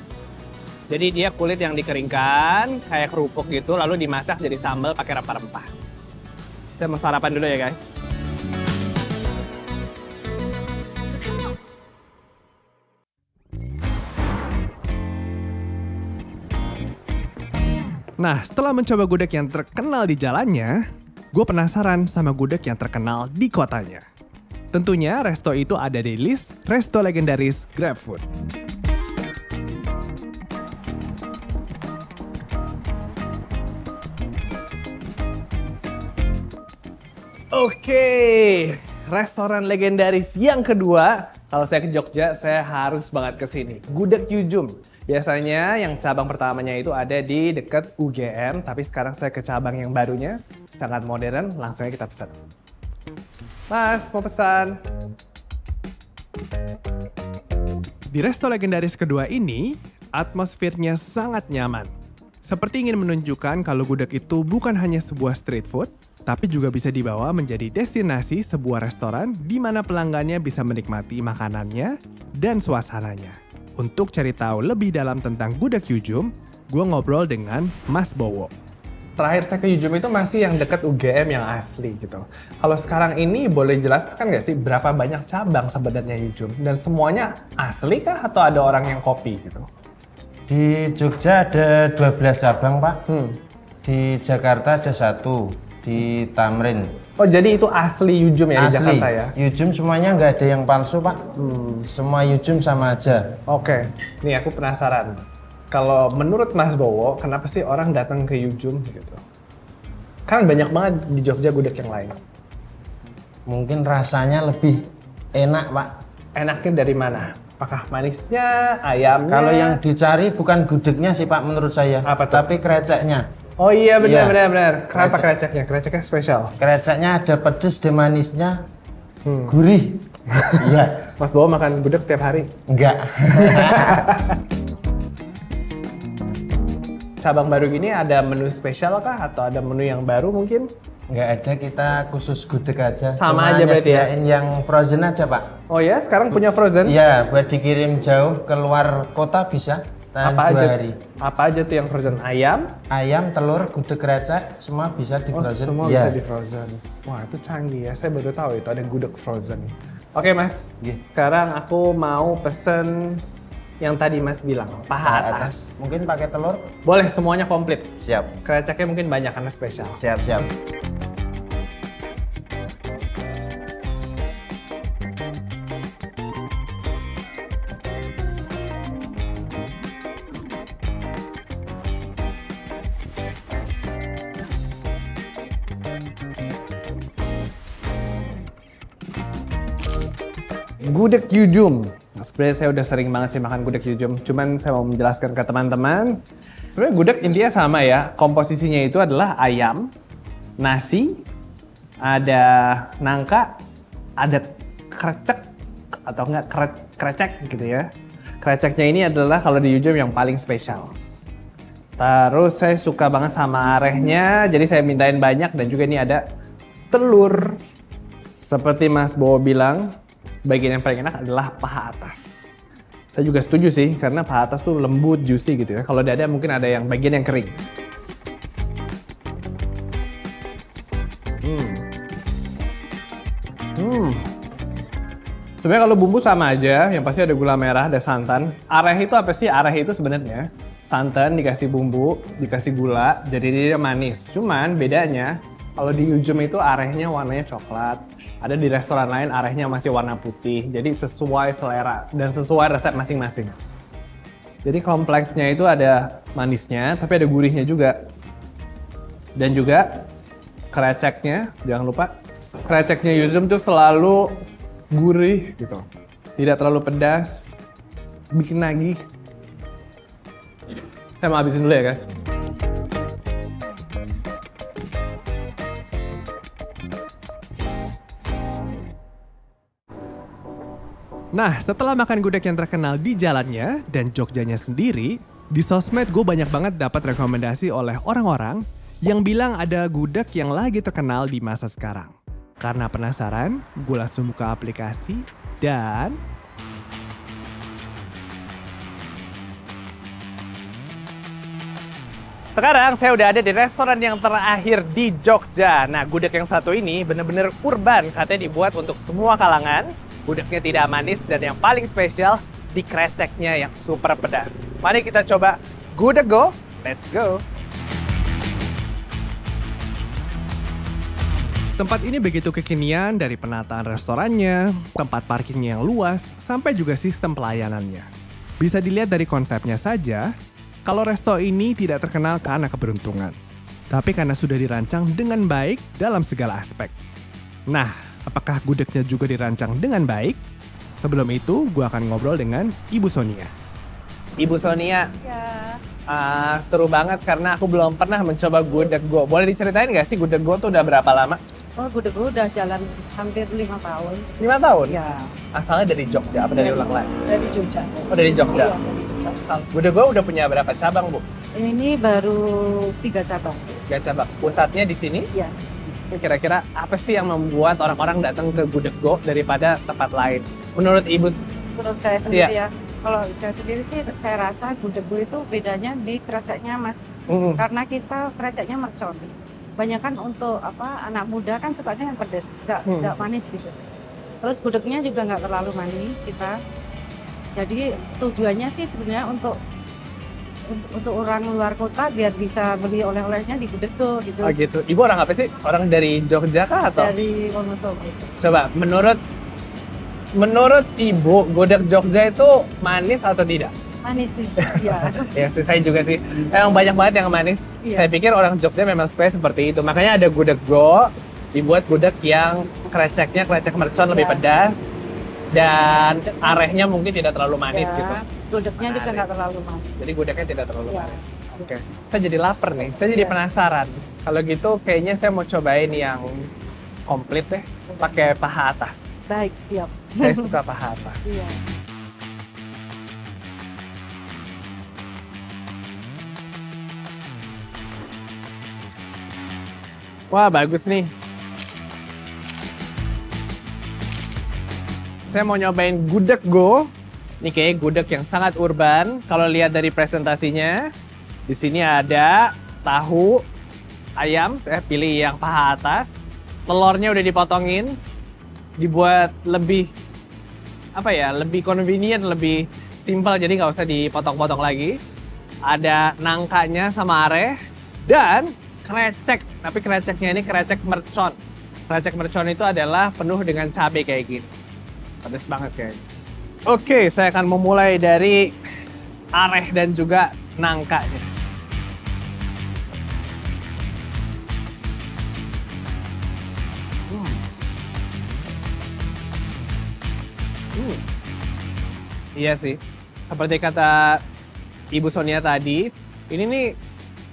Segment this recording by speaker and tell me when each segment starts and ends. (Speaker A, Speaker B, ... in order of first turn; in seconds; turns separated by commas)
Speaker A: 0.9-5.7, Speaker A: 6.8-7.9, Speaker A: 18.2-20.8, Speaker A: 21.3-24.1, Speaker A: 24.7-28.2, Speaker A: 37.5-52.4, Speaker A: 53.7-54.8, Speaker A: 58.1-61.9, Speaker A: 62.4-78.5, Speaker A: 79.2-89.7, Speaker B: 90.5-93.0, Speaker A: 93.1-93.4, Speaker B: 93.8-96.9, Speaker A: 97.2-99.3, Speaker B: 98.6-101.2, Speaker A: 101.4-101.9, Speaker B: 101.9-103.4, Speaker A: 103.5-109.2, Speaker A: 110.3-112.2, Speaker B: 113.5-116.0, Speaker A: 116.3-119.8, Speaker B: 119.3-123.3, Speaker A: 122.0-122.5, Speaker A: 123.6-126.6, Speaker B: 124.0-124.4, Speaker B: 124.9-125.3, Speaker B: 126.6-128.6, Speaker A: 129.2-129.6, Speaker B: 129.5-131.1, Speaker A: 130.3-132.6, Speaker B: 132.7-134.1, Speaker A: 133.3-134.4, Speaker A: 137.2-140.7, Speaker B: 141.1-145.5, Speaker A: 143.1-144.1, Speaker A: 145.7-147.0, Speaker B: 146.8-151.0, Speaker A: 150.2-152.8, Speaker B: 152.9-156.2, Speaker A: 155.3-163.2, Speaker A: 163.8-165.8, Speaker B: 165.0-166.7, Speaker A: 166.8-170.0, Speaker B: 168.0-168.3, Speaker B: 170.0-170.5, Speaker A: 190.8-196.2, Speaker A: 196.7-199.9, Speaker A: 200.6-201.2, Speaker A: 202.0-203.6, Speaker A: 204.2-205.5, Speaker A: 206.1-207.9, Speaker A: 208.4-211.0, Speaker A: 212.0-216.2, Speaker A: 216.9-217.6, Speaker A: 218.2-219.9, Speaker A: 220.5-222.6, Speaker A: 223.1-227.6, Speaker A: 231.4-231.8, Speaker A: 233.8-234.2, Speaker A: 235.6-253.6, Speaker A: 254.6-258.0, Speaker A: 259.4-260.1, Speaker A: 260.7-262.1, Speaker A: 262.6-265.9, Speaker A: 266.4-267.6, Speaker A: 268.3-269.0, Speaker A: 271.2-272.1, Speaker A: 281.3-296.2, Speaker A: 302.6-317.4, Speaker A: 321.8-328.1, Speaker A: 328.6-330.3, Speaker A: 330.9-333.4, Speaker A: 333.9-336.9, Speaker A: 337.7-340.4, Speaker A: 341.0-343.5, Speaker A: 344.4-345.1, Speaker C: 345.2-345.8, Speaker A: 346.1-351.4, Speaker C: 351.8-354.3, Speaker A: 354.4-355.0, Speaker C: 354.9-355.3, Speaker A: 355.5-357.1, Speaker C: 356.5-359.4, Speaker A: 358.1-358.8, Speaker A: 359.4-361.2, Speaker C: 361.6-363.7, Speaker A: 363.9-365.3, Speaker C: 365.3-366.0, Speaker A: 366.1-371.4, Speaker C: 371.8-383.7, Speaker A: 372.3-372.6, Speaker A: 377.3-377.6, Speaker A: 382.9-383.2, Speaker C: 384.4-386.5, Speaker C: 387.6-389.5, Speaker C: 390.7-394.6, Speaker A: 394.4-397.1, Speaker C: 397.0-398.3, Speaker A: 398.4-399.2, Speaker A: 400.4-403.7, Speaker C: 404.0-405.3, Speaker A: 404.6-414.9, Speaker C: 407.8-408.1, Speaker C: 414.1-414.4, Speaker A: 415.5-418.3, Speaker C: 417.7-420.0, Speaker A: 418.8-419.3, Speaker A: 420.0-426.5, Speaker C: 420.9-421.7, Speaker C: 422.9-423.4, Speaker A: 427.1-429.2, Speaker C: 429.3-430.6, Speaker A: 430.2-431.4, Speaker C: 431.2-431.6, Speaker A: 440.3-441.1, Speaker A: 445.3-450.9, Speaker A: 451.5-453.4, Speaker A: 454.2-458.0, Speaker A: 458.8-459.9, Speaker A: 460.5-465.0, Speaker A: 465.7-474.5, Speaker A: 475.2-476.0, Speaker A: 476.7-478.6, Speaker A: 479.4-481.3, Speaker A: 487.1-487.4, Speaker A: 490.8-491.0, Speaker A: 492.4-494.2, Speaker A: 494.9-496.7